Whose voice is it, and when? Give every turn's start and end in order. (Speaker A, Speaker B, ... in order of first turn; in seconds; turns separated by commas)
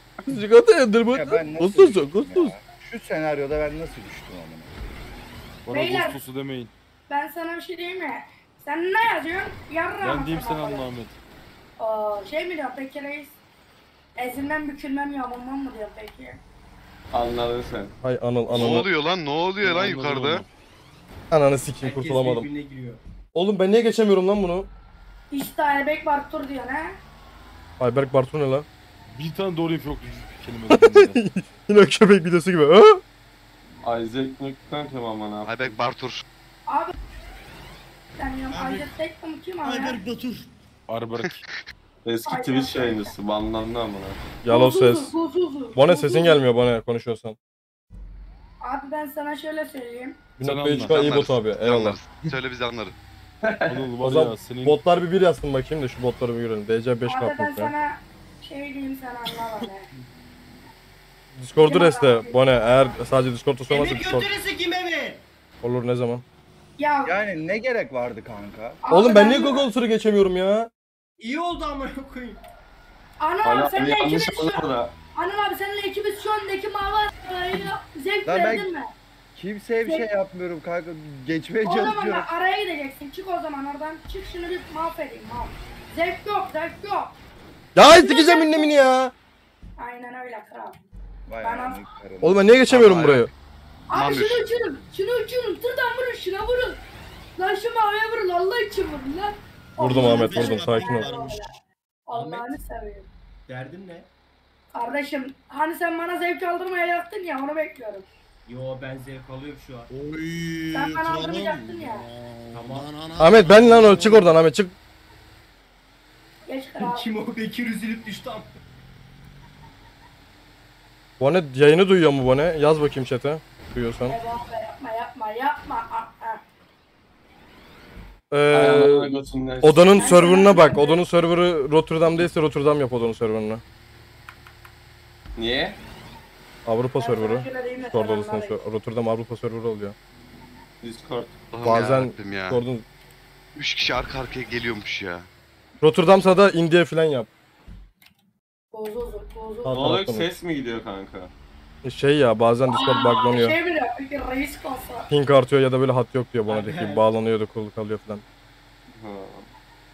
Speaker A: 0.2-2.5, Speaker B: 1.1-4.7, Speaker C: 5.6-6.7, Speaker D: 5.7-6.2, Speaker D: 7.1-10.8, Speaker C: 10.0-11.2, Speaker D: 11.8-13.4, Speaker D: 14.2-16.4, Speaker E: 17.1-17.9, Speaker A: 18.0-18.9, Speaker F: 18.5-20.4, Speaker C: 18.5-18.9, Speaker C: 19.6-20.4, Speaker A: 21.3-22.5, Speaker G: 21.8-23.0, Speaker A: 23.3-24.7, Speaker D: 25.3-27.0, Speaker A: 27.8-28.7, Speaker C: 29.1-31.2, Speaker A: 30.7-33.0, Speaker E: 33.8-35.8, Speaker F: 35.4-36.2, Speaker D: 36.7-36.9, Speaker D: 38.2-40.0, Speaker H: 38.5-38.9, Speaker H: 39.6-40.5, Speaker C: 40.9-41.4, Speaker E: 42.0-44.2, Speaker D: 42.2-43.1, Speaker A: 44.4-45.1, Speaker D: 44.5-46.4, Speaker A: 45.7-47.4, Speaker D: 48.6-50.2, Speaker A: 50.4-52.0, Speaker C: 50.4-51.2, Speaker F: 50.8-52.9, Speaker E: 53.4-53.9, Speaker C: 53.7-54.8, Speaker A: 54.0-57.7, Speaker D: 57.0-59.9, Speaker A: 61.3-64.3, Speaker D: 61.6-63.0, Speaker G: 63.7-65.2, Speaker A: 65.6-66.2, Speaker D: 66.8-67.1, Speaker B: 67.0-68.8, Speaker D: 68.8-69.7, Speaker A: 68.9-70.7, Speaker G: 71.2-72.4, Speaker D: 73.2-78.9, Speaker E: 73.4-74.9, Speaker B: 78.2-78.7, Speaker B: 79.3-82.3, Speaker D: 81.6-87.1, Speaker A: 87.7-89.1, Speaker D: 87.8-88.8, Speaker D: 89.8-90.8, Speaker B: 91.3-92.5, Speaker D: 91.4-91.8, Speaker A: 92.2-93.3, Speaker F: 92.7-93.3, Speaker D: 93.9-96.8, Speaker F: 93.9-94.5, Speaker D: 97.3-101.5, Speaker A: 99.8-101.1, Speaker H: 99.9-101.6, Speaker D: 102.1-103.1, Speaker G: 102.1-102.5, Speaker G: 103.5-104.1, Speaker D: 104.7-108.0, Speaker G: 108.5-109.9, Speaker H: 109.9-114.3, Speaker D: 110.7-112.0, Speaker G: 112.5-112.9, Speaker A: 113.2-114.7, Speaker D: 116.5-117.1, Speaker G: 116.8-118.5, Speaker A: 121.2-124.2, Speaker D: 124.1-126.4, Speaker A: 128.3-133.6, Speaker E: 128.5-130.1, Speaker D: 129.9-131.0, Speaker E: 135.3-135.8, Speaker A: 136.6-139.9, Speaker D: 137.0-138.6, Speaker E: 140.8-141.9, Speaker F: 141.5-142.6, Speaker A: 141.6-142.8, Speaker F: 143.5-145.3, Speaker A: 145.8-147.3, Speaker D: 148.7-149.8, Speaker A: 149.6-150.3, Speaker E: 149.7-151.3, Speaker A: 151.8-153.6, Speaker D: 152.7-155.1, Speaker A: 155.1-158.2, Speaker G: 156.4-157.1, Speaker E: 158.9-159.5